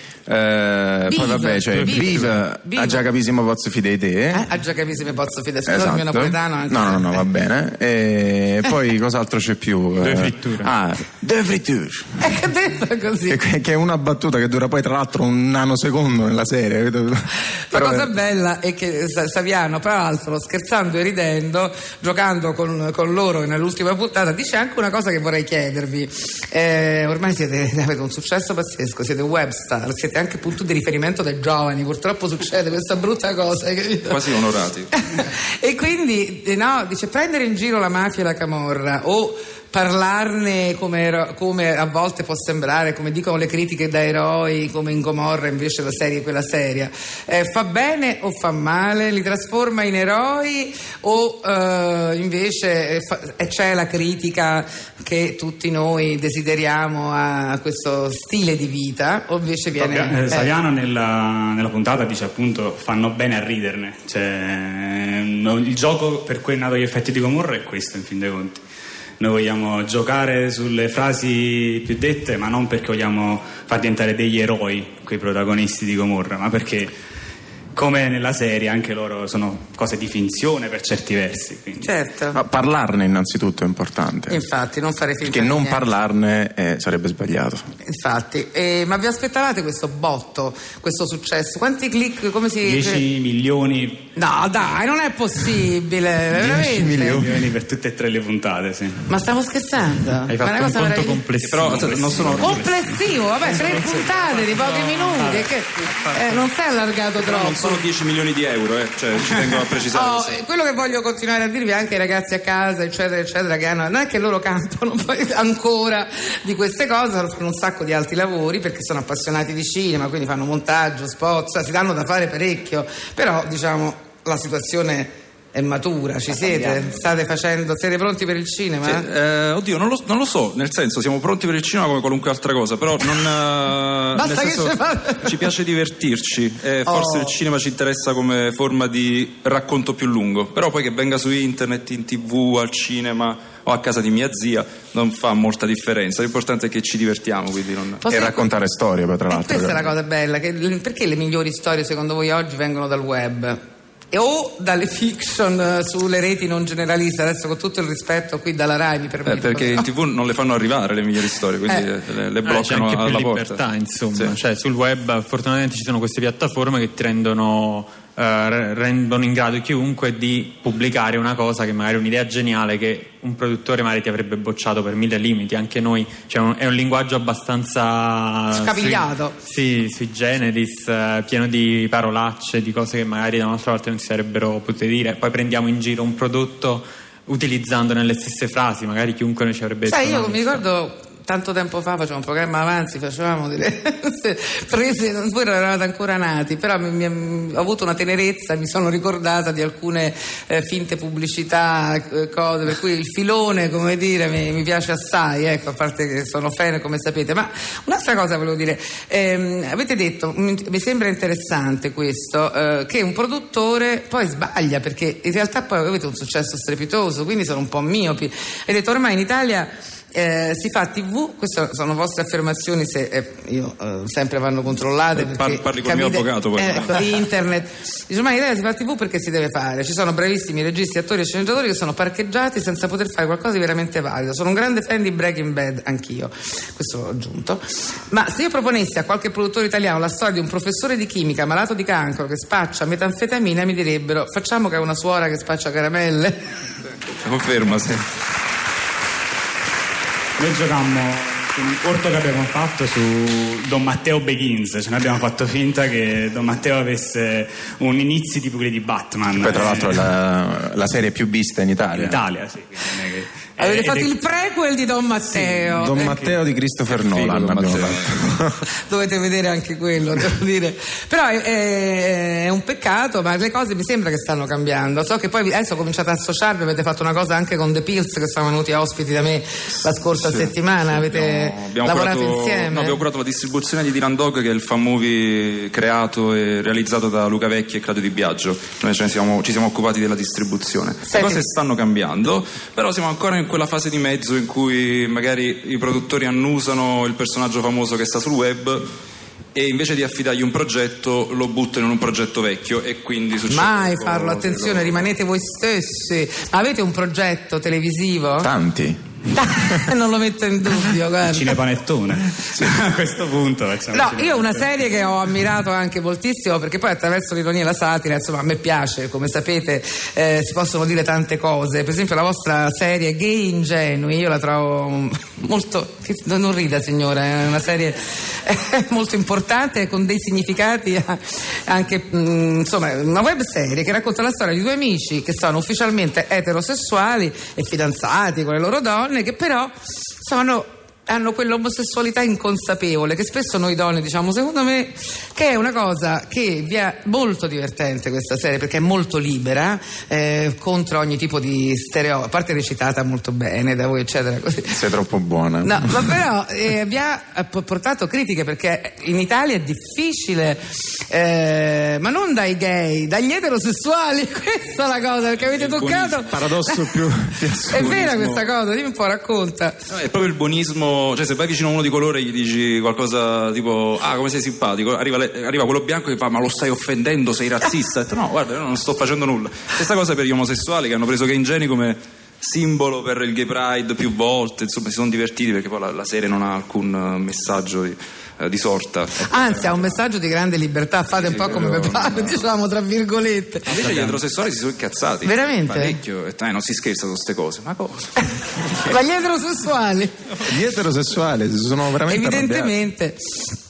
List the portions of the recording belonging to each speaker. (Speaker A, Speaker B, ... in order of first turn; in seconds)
Speaker A: 0.3-4.4, 5.7-12.1, 13.3-18.1, 82.3-84.4, 85.2-87.6, 96.3-97.3, 148.1-149.9, 259.4-262.2, 265.7-268.6, 308.4-309.0, 354.7-355.8, 366.3-368.2, 391.4-392.3, 400.4-402.7
Speaker B: 1.1-3.1, 4.3-7.2, 12.2-13.4, 17.7-34.3, 34.9-60.5, 81.8-82.4, 84.3-85.8, 87.8-93.0, 94.1-97.3, 99.1-101.2, 102.4-107.8, 109.9-129.1, 134.1-135.6, 136.8-137.3, 148.0-148.5, 149.3-153.6, 154.1-159.9, 178.5-179.4, 189.8-246.4, 263.6-266.2, 268.9-283.0, 291.1-291.4, 303.5-308.5, 309.3-311.6, 313.9-354.8, 355.6-360.6, 361.1-367.0, 367.7-369.8, 389.2-393.8, 395.2-396.0, 398.8-400.1, 402.0-403.5
Speaker C: 10.0-10.7, 100.3-102.9, 162.4-190.6, 393.8-394.2
Speaker D: 34.1-34.9, 101.4-102.9, 107.2-110.4, 128.8-148.0, 159.3-164.3, 225.2-227.1, 247.2-248.0, 266.9-268.2, 280.2-298.9, 299.5-305.1, 365.4-366.4, 367.7-368.4, 369.9-389.9, 393.6-398.2
Speaker E: 59.7-68.6, 69.2-76.9, 77.7-81.9, 92.6-94.0, 96.9-99.0, 250.4-260.0, 261.9-264.1, 265.3-266.3, 311.3-314.8